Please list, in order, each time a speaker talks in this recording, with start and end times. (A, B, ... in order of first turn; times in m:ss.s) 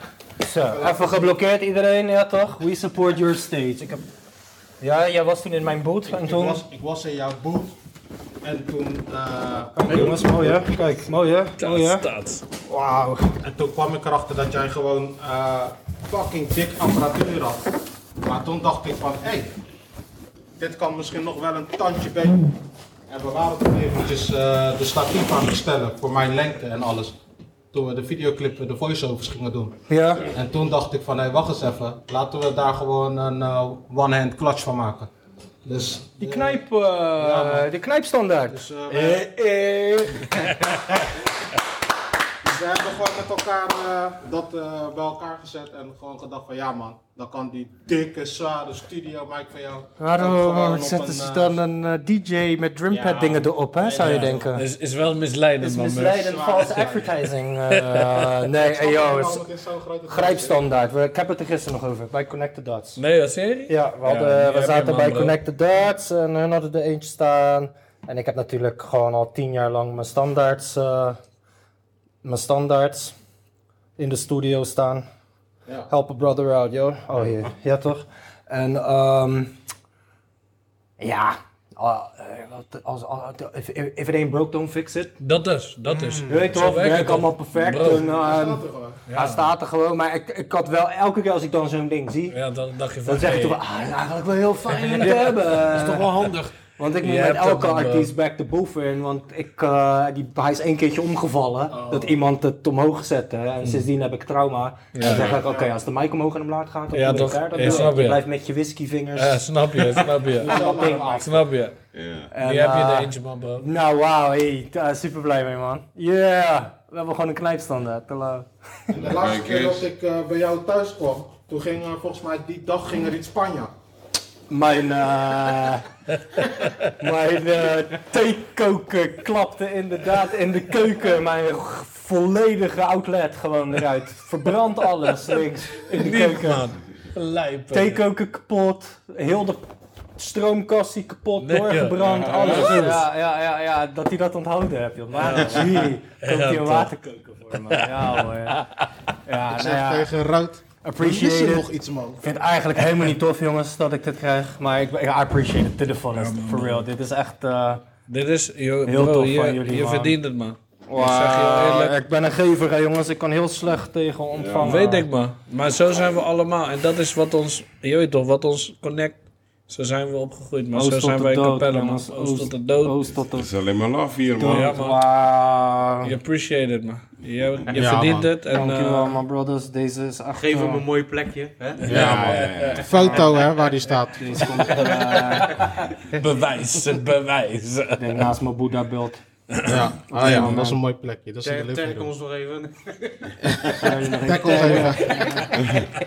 0:00.4-0:04.0 A
0:00.6-0:01.4 B
0:04.8-0:06.6 A
0:06.1-0:07.7 B
0:08.4-0:10.6 B
0:09.7-0:12.1 A
0:11.6-0:12.4 C
0:12.6-0:13.4 A
0:13.4-0:17.7 B
0:18.2-0:19.5 B
0:20.6-0:22.5 B
0:23.1-0:27.2 B
0:27.7-0:35.1 B
0:29.9-0:30.3 A
0:35.6-0:36.6 B
0:36.2-0:41.0 A
0:37.2-0:37.7 B
0:38.5-0:39.2 B
0:42.4-0:51.6 B
0:50.0-0:54.7 A
0:52.9-0:54.4 B
0:54.0-0:56.3 C
0:55.6-0:59.4 A
0:56.2-0:57.1 B
0:57.7-0:58.3 C
0:58.5-1:00.6 B
1:00.1-1:03.0 A
1:03.0-1:05.3 C
1:03.7-1:11.2 A
1:12.2-1:13.1 A
1:14.0-1:15.0 A
1:15.9-1:19.6 A
1:21.0-1:25.1 A
1:25.2-1:28.1 C
1:25.9-1:26.4 D
1:26.3-1:32.4 A
1:27.9-1:29.0 B
1:29.1-1:29.5 C
1:32.3-1:33.6 C
1:33.0-1:36.1 A
1:34.9-1:36.5 D
1:36.8-1:49.4 A
1:37.0-1:38.1 C
1:41.7-1:42.2 B
1:45.0-1:45.4 C
1:45.1-1:45.7 E
1:46.9-1:48.3 C
1:49.1-1:51.8 C
1:50.4-1:51.4 A
1:50.4-1:51.4 B
1:51.9-1:52.3 E
1:52.3-1:58.5 A
1:52.4-1:53.6 C
1:58.9-2:03.7 B
1:59.0-1:59.8 E
2:04.5-2:05.9 A
2:06.9-2:16.7 A
2:15.9-2:18.0 C
2:17.7-2:19.6 A
2:20.2-2:28.6 A
2:21.4-2:23.0 C
2:22.2-2:22.8 E
2:22.5-2:23.0 D
2:25.2-2:26.9 C
2:27.7-2:28.9 C
2:29.3-2:30.1 A
2:29.5-2:32.2 B
2:30.8-2:31.7 A
2:32.2-2:37.9 A
2:36.1-2:36.9 C
2:38.1-2:42.0 C
2:38.9-2:40.2 A
2:40.9-2:45.1 A
2:44.3-2:44.8 E
2:44.6-2:53.0 C
2:50.7-2:53.5 A
2:53.3-2:54.7 E
2:54.4-2:56.2 A
2:54.4-2:55.0 C
2:56.0-2:59.2 C
2:57.7-2:58.3 B
2:58.5-3:00.8 A
3:00.3-3:01.9 D
3:01.8-3:03.2 C
3:01.9-3:04.6 B
3:01.9-3:02.9 E
3:03.0-3:03.3 A
3:04.2-3:05.7 A
3:04.4-3:08.3 C
3:08.0-3:09.2 A
3:09.5-3:10.6 C
3:09.7-3:12.2 B
3:10.1-3:10.8 A
3:11.4-3:13.9 D
3:13.4-3:15.4 B
3:13.8-3:15.6 A
3:14.5-3:15.4 C
3:15.6-3:15.9 E